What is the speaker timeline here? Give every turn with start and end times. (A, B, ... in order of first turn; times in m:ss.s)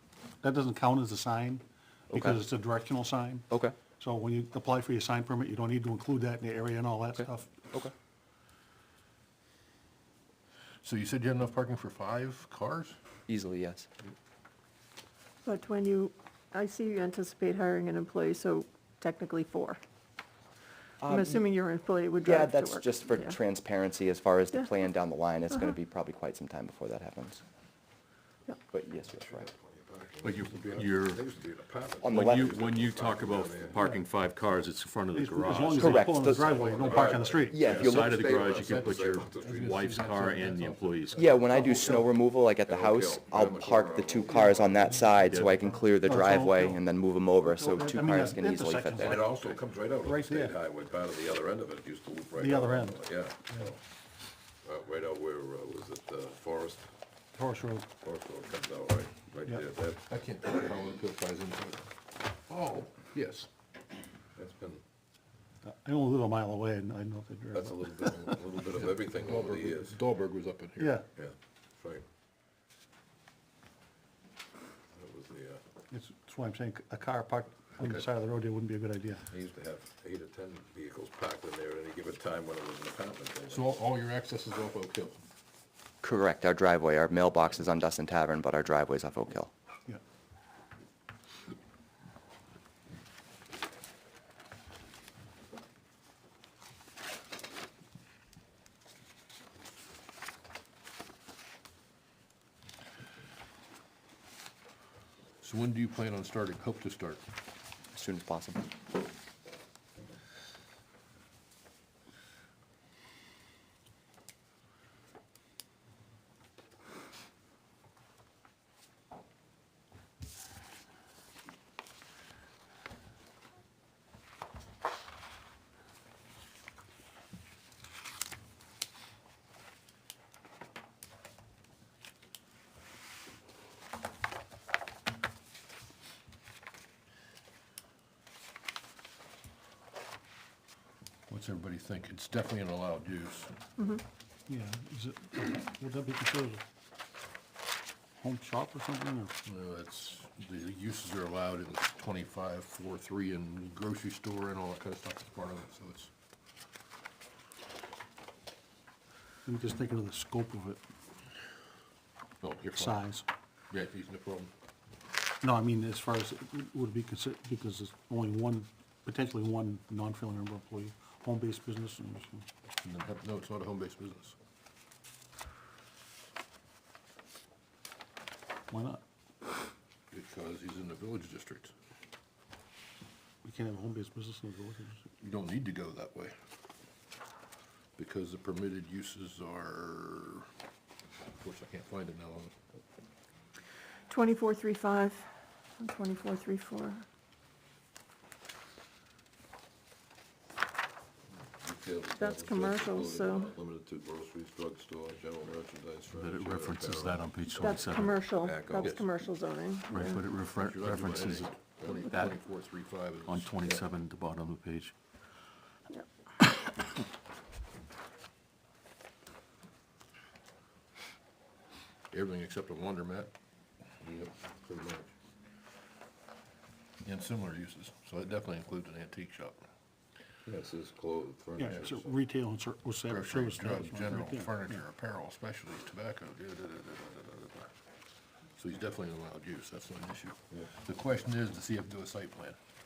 0:00.4-0:03.5 A
0:02.1-0:02.4 B
0:03.5-0:03.8 B
0:04.0-0:07.5 A
0:07.2-0:07.9 B
0:10.8-0:13.0 C
0:13.3-0:13.9 B
0:15.4-0:19.8 D
0:21.0-0:21.4 B
0:21.1-0:23.4 D
0:22.2-0:27.4 B
0:28.7-0:29.5 B
0:29.2-0:33.8 E
0:30.2-0:31.2 F
0:32.0-0:32.5 B
0:32.0-0:36.2 F
0:35.1-0:37.7 A
0:35.8-0:36.7 B
0:36.4-0:39.7 E
0:36.8-0:41.4 C
0:37.5-0:38.2 B
0:37.7-0:41.3 F
0:39.4-0:40.4 A
0:41.2-0:49.2 B
0:41.3-0:42.0 E
0:41.6-0:42.0 A
0:42.6-0:45.0 E
0:44.9-0:45.4 A
0:45.3-0:45.9 F
0:46.0-0:46.8 A
0:47.4-0:50.6 A
0:49.0-0:53.8 E
0:52.4-0:53.6 A
0:54.6-0:56.9 E
0:57.3-0:57.9 A
0:58.0-1:00.1 E
1:00.1-1:01.9 C
1:02.5-1:03.5 C
1:04.4-1:04.8 E
1:05.6-1:08.5 A
1:07.5-1:10.0 E
1:08.8-1:11.0 C
1:10.8-1:11.1 A
1:11.2-1:12.1 E
1:14.9-1:15.6 E
1:15.9-1:19.3 A
1:19.3-1:23.8 E
1:23.5-1:25.2 C
1:26.0-1:29.5 B
1:45.4-1:47.2 C
1:47.9-1:48.7 B
2:21.3-2:23.5 C
2:23.8-2:24.0 D
2:24.5-2:26.6 A
2:28.2-2:29.3 A
2:29.4-2:36.1 C
2:39.4-2:40.8 A
2:42.4-2:43.1 C
2:42.8-2:43.3 A
2:43.7-2:44.5 C
2:45.4-2:52.5 A
2:52.8-2:54.4 C
2:58.7-2:59.0 A
3:00.1-3:01.7 C
3:03.4-3:05.0 A
3:05.2-3:06.3 C
3:08.0-3:10.5 C
3:11.4-3:12.6 C
3:14.1-3:15.2 D
3:15.8-3:17.0 D
3:21.4-3:29.0 E
3:22.2-3:23.5 D
3:26.1-3:28.2 F
3:27.5-3:30.2 D
3:28.7-3:29.0 C
3:29.9-3:32.4 F
3:30.2-3:33.7 C
3:33.3-3:34.9 F
3:42.1-3:43.3 C
3:44.0-3:45.1 C
3:47.0-3:49.6 C
3:50.5-3:52.1 E
3:51.6-3:54.7 A
3:51.6-3:51.9 C
3:53.1-3:57.7 C
3:58.6-4:02.6 C